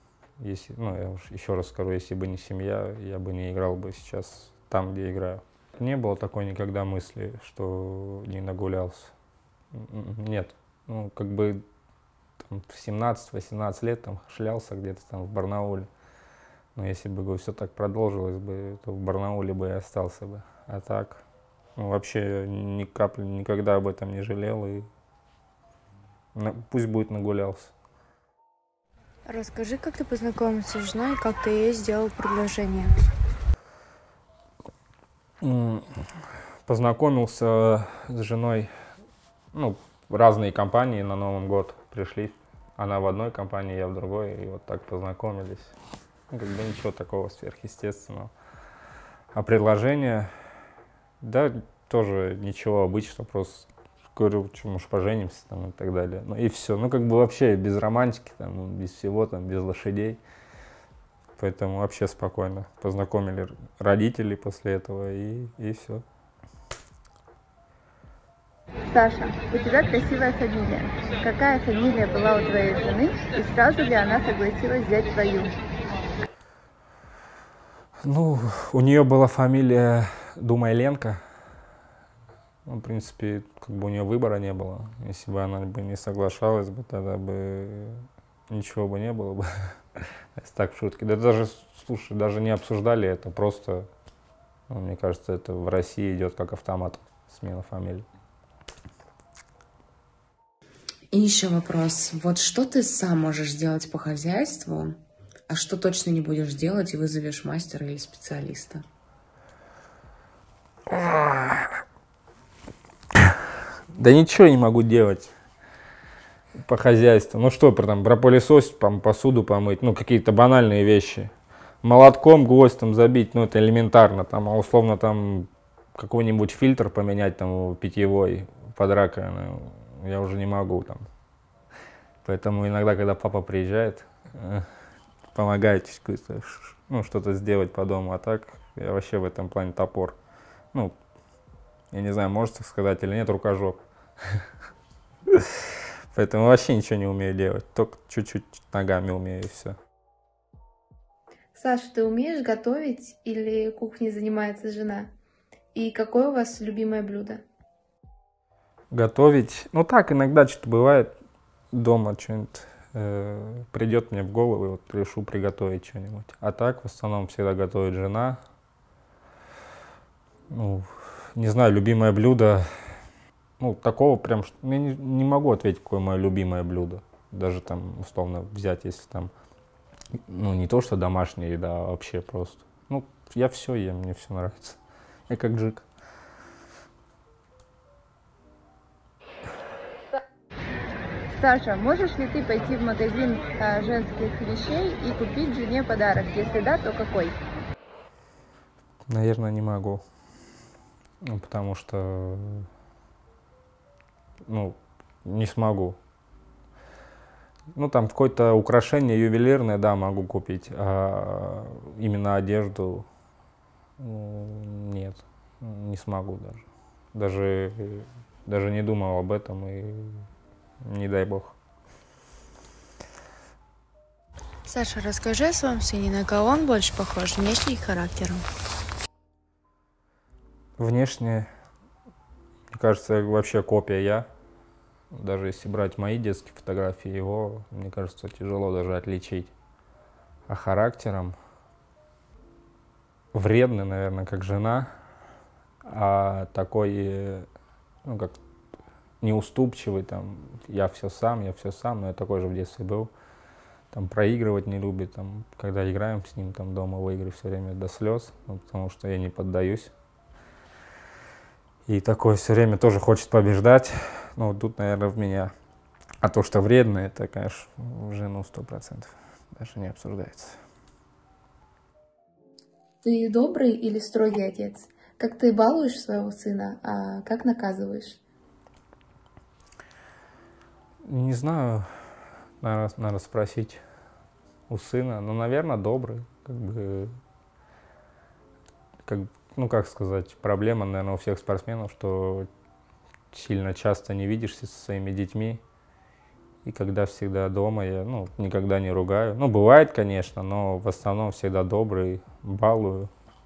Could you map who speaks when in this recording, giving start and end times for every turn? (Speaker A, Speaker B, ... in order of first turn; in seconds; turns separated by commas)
Speaker A: 0.4-9.1, Speaker A: 9.7-11.6, Speaker A: 12.4-15.9, Speaker A: 16.7-21.2, Speaker A: 21.8-24.9, Speaker A: 26.3-27.7, Speaker B: 29.2-32.9, Speaker A: 35.4-35.9, Speaker A: 36.7-38.7, Speaker A: 39.5-45.7, Speaker A: 46.3-48.3, Speaker A: 49.3-50.3, Speaker A: 51.2-60.2, Speaker A: 61.4-66.0, Speaker C: 68.9-75.5, Speaker A: 78.0-81.2, Speaker A: 82.7-93.9, Speaker A: 94.7-98.0, Speaker D: 101.1-105.0, Speaker D: 105.5-108.8, Speaker A: 110.9-111.7, Speaker A: 113.9-115.3, Speaker A: 116.6-121.3, Speaker A: 121.8-131.1, Speaker A: 132.2-134.7, Speaker A: 135.3-140.2, Speaker A: 141.9-143.8, Speaker A: 145.3-149.8, Speaker E: 151.5-155.1, Speaker E: 155.7-157.4, Speaker A: 158.9-161.1, Speaker A: 161.7-168.4, Speaker A: 170.5-172.7, Speaker A: 173.6-179.3, Speaker A: 180.3-185.8, Speaker C: 191.3-197.3, Speaker A: 199.1-200.0, Speaker A: 201.2-202.7, Speaker A: 204.4-206.0, Speaker A: 207.7-213.1, Speaker A: 214.0-220.3, Speaker A: 220.8-221.6, Speaker B: 224.7-228.4, Speaker A: 230.8-231.5, Speaker A: 232.7-234.3, Speaker A: 235.1-239.5, Speaker A: 240.5-241.3, Speaker A: 243.3-244.9, Speaker A: 245.8-247.5, Speaker A: 248.0-248.3, Speaker A: 249.2-253.1, Speaker A: 253.9-259.9, Speaker A: 261.9-265.5, Speaker A: 266.2-270.6, Speaker E: 273.0-278.2, Speaker A: 281.0-282.0, Speaker A: 282.6-283.8, Speaker A: 284.7-287.1, Speaker A: 289.1-292.5, Speaker A: 293.3-295.6, Speaker A: 296.6-303.1